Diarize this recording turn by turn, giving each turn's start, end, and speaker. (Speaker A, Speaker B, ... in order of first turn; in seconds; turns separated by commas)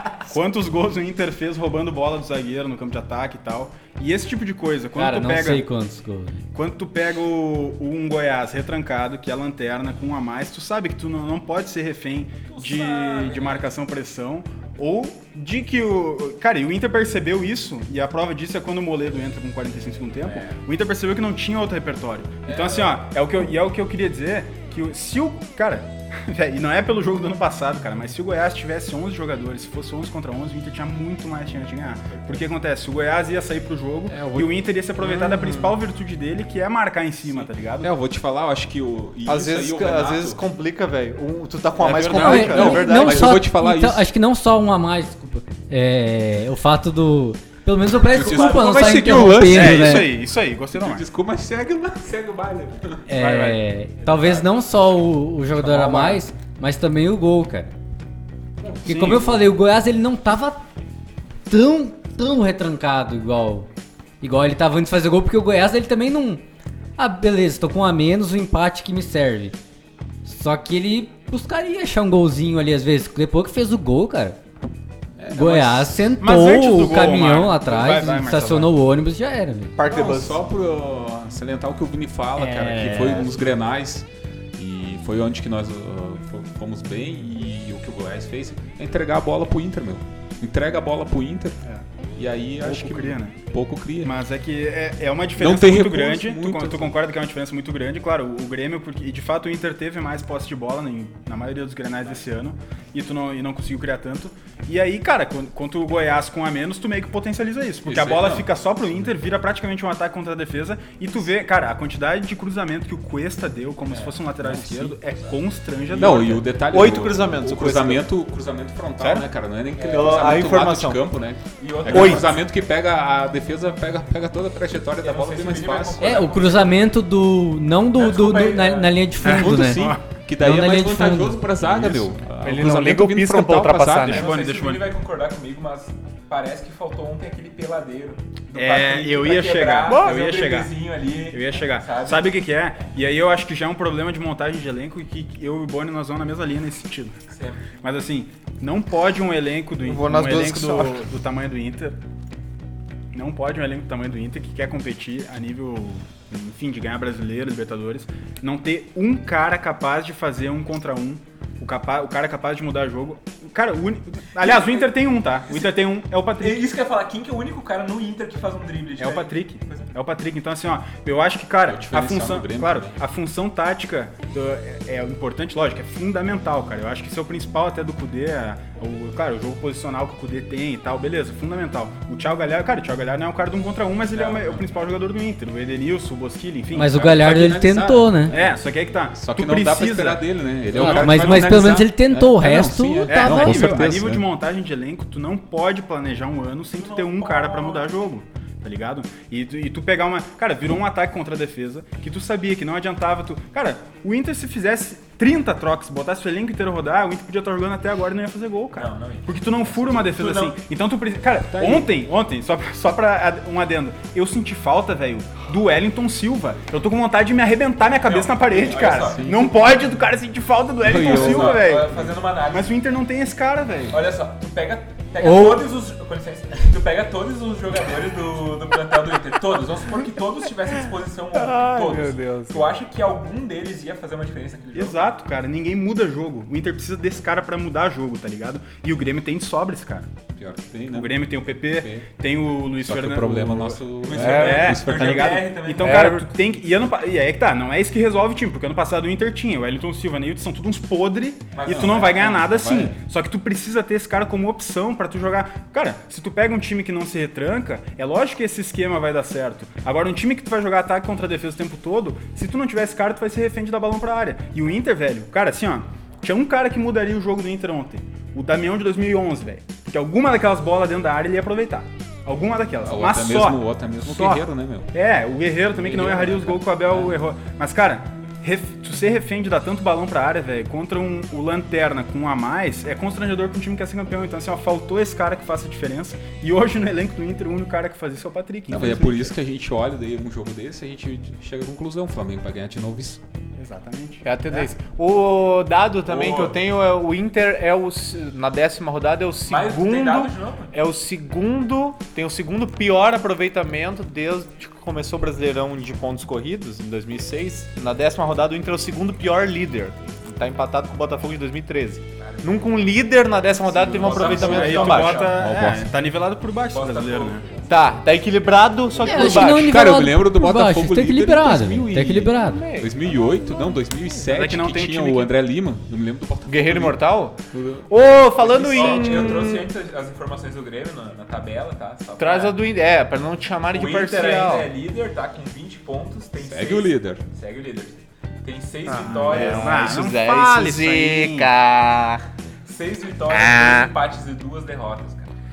Speaker A: 0.3-5.7, Speaker B: 5.0-6.4, Speaker A: 6.5-37.9, Speaker C: 12.5-13.7, Speaker C: 20.2-20.6, Speaker C: 22.5-22.9, Speaker D: 34.1-34.5, Speaker E: 35.0-35.8, Speaker D: 37.8-40.4, Speaker E: 39.3-43.4, Speaker A: 41.8-42.8, Speaker B: 42.1-50.1, Speaker D: 42.2-44.0, Speaker D: 48.1-50.2, Speaker C: 48.1-49.1, Speaker A: 49.5-51.0, Speaker D: 50.8-52.2, Speaker C: 52.1-52.8, Speaker B: 53.1-57.7, Speaker A: 53.2-53.6, Speaker A: 55.7-56.2, Speaker D: 58.6-59.2, Speaker B: 58.9-60.6, Speaker A: 58.9-59.4, Speaker B: 61.5-63.7, Speaker B: 64.2-66.4, Speaker B: 67.0-69.6, Speaker B: 70.2-74.4, Speaker D: 75.2-76.2, Speaker B: 75.3-79.8, Speaker A: 76.2-78.7, Speaker E: 79.8-80.4, Speaker D: 79.8-91.6, Speaker B: 82.4-83.3, Speaker D: 92.2-94.1, Speaker A: 92.6-93.4, Speaker A: 94.0-116.6, Speaker D: 95.4-97.0, Speaker D: 107.9-109.1, Speaker C: 113.9-114.2, Speaker D: 114.4-115.0, Speaker D: 115.9-126.3, Speaker E: 116.7-118.1, Speaker E: 119.0-119.3, Speaker C: 119.8-120.6, Speaker E: 119.9-121.0, Speaker C: 121.6-122.4, Speaker E: 121.9-122.3, Speaker C: 125.0-126.8, Speaker B: 126.0-131.4, Speaker C: 128.0-129.0, Speaker A: 129.2-130.0, Speaker D: 129.2-134.2, Speaker E: 131.8-134.3, Speaker A: 134.0-134.9, Speaker C: 134.1-142.3, Speaker A: 138.5-140.7, Speaker E: 139.9-140.2, Speaker A: 141.3-147.2, Speaker C: 147.3-147.7, Speaker A: 147.8-152.0, Speaker E: 149.8-151.0, Speaker A: 153.1-166.7, Speaker C: 164.4-164.9, Speaker C: 165.5-165.8, Speaker C: 166.4-169.9, Speaker A: 169.0-186.9, Speaker D: 171.7-173.0, Speaker C: 184.1-184.7, Speaker B: 186.7-188.3, Speaker D: 186.7-188.6, Speaker A: 188.3-191.6, Speaker D: 189.1-194.2, Speaker B: 190.8-193.8, Speaker A: 193.1-224.0, Speaker C: 196.8-197.9, Speaker C: 208.7-210.6, Speaker D: 211.5-211.9, Speaker C: 218.1-219.8, Speaker D: 219.0-219.5, Speaker D: 220.8-222.1, Speaker C: 220.9-222.8, Speaker C: 223.9-235.1, Speaker B: 225.2-225.6, Speaker E: 231.3-232.7, Speaker A: 234.7-240.1, Speaker D: 240.4-242.1, Speaker A: 240.9-289.4, Speaker D: 242.8-245.5, Speaker C: 244.1-246.2, Speaker E: 244.1-245.0, Speaker E: 245.8-246.3, Speaker C: 251.5-252.4, Speaker D: 251.7-253.0, Speaker D: 272.8-274.9, Speaker D: 275.9-277.1, Speaker D: 288.7-293.2, Speaker A: 293.6-294.7, Speaker E: 294.2-315.3, Speaker C: 296.1-296.6, Speaker C: 299.5-300.7, Speaker C: 312.2-312.9, Speaker D: 313.7-315.9, Speaker C: 313.8-315.4, Speaker A: 314.0-317.5, Speaker C: 316.7-317.7, Speaker E: 317.7-319.7, Speaker B: 319.0-322.6, Speaker D: 319.1-329.3, Speaker E: 322.3-323.0, Speaker A: 324.2-325.3, Speaker E: 326.5-329.7, Speaker C: 328.4-332.6, Speaker E: 332.2-334.7, Speaker C: 333.7-339.9, Speaker D: 336.4-337.2, Speaker A: 338.9-341.5, Speaker E: 338.9-342.2, Speaker C: 342.7-345.3, Speaker E: 343.3-343.9